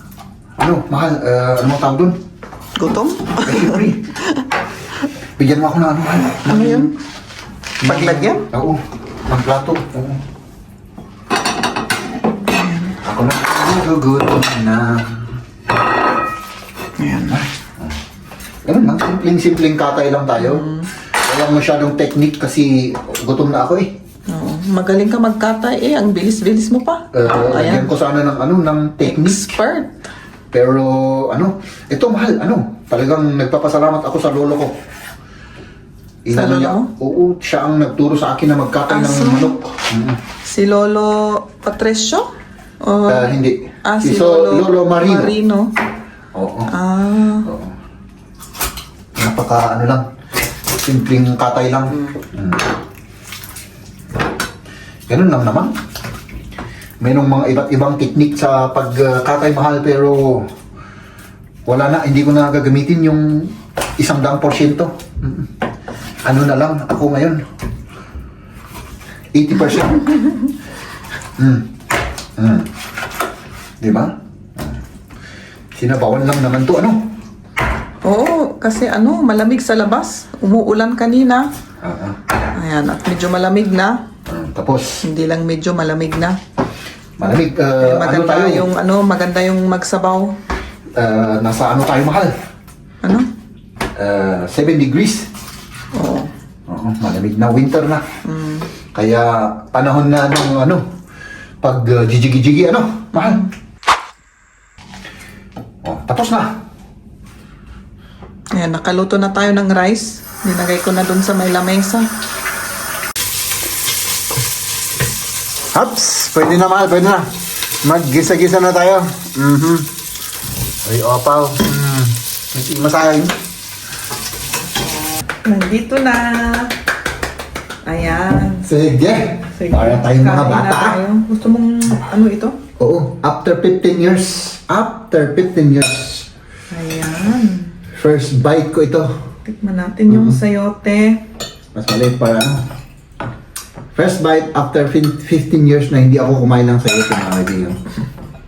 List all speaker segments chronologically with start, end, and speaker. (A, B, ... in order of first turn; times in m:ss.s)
0:00.6-0:02.2 A
0:02.8-0:04.4 B
0:03.4-0:04.1 A
0:05.4-0:06.9 A
0:06.4-0:06.9 B
0:07.8-0:10.2 A
0:07.8-0:08.5 B
0:12.5-0:13.0 B
0:13.0-0:15.3 A
0:17.0-0:17.4 B
0:17.3-0:17.9 A
0:18.6-0:24.0 A
0:20.4-0:20.9 B
0:24.3-0:27.9 B
0:27.1-0:29.6 A
0:29.0-0:29.9 B
0:30.5-0:34.8 A
0:36.2-0:40.2 A
0:36.3-0:36.9 B
0:38.9-0:39.6 B
0:40.4-0:45.7 B
0:43.1-0:45.3 A
0:46.3-0:46.7 A
0:46.7-0:47.5 B
0:47.4-0:47.7 A
0:49.2-0:50.1 A
0:50.8-0:52.7 A
0:55.1-0:55.8 A
0:57.0-1:00.5 A
1:01.6-1:05.5 A
1:06.2-1:07.4 A
1:09.3-1:10.1 A
1:11.4-1:11.7 A
1:12.4-1:12.7 A
1:13.8-1:14.8 A
1:15.7-1:17.1 A
1:18.0-1:21.5 B
1:21.8-1:22.2 A
1:22.5-1:24.0 B
1:24.3-1:25.0 A
1:25.0-1:26.4 B
1:27.2-1:28.7 A
1:27.8-1:30.3 B
1:31.0-1:32.4 A
1:33.0-1:33.3 B
1:34.0-1:35.3 A
1:35.9-1:36.3 B
1:36.7-1:38.1 A
1:38.2-1:38.7 B
1:38.9-1:40.9 A
1:41.6-1:43.4 A
1:43.2-1:43.4 B
1:45.8-1:46.6 A
1:48.5-1:52.1 B
1:55.7-1:57.3 A
1:57.8-1:59.9 A
2:00.8-2:03.4 A
2:05.4-2:06.8 B
2:07.8-2:08.7 B
2:08.6-2:11.0 A
2:09.3-2:12.6 B
2:12.8-2:16.3 A
2:16.7-2:17.8 B
2:17.9-2:19.2 A
2:19.4-2:21.2 B
2:20.1-2:20.4 A
2:21.7-2:22.6 A
2:23.9-2:27.8 A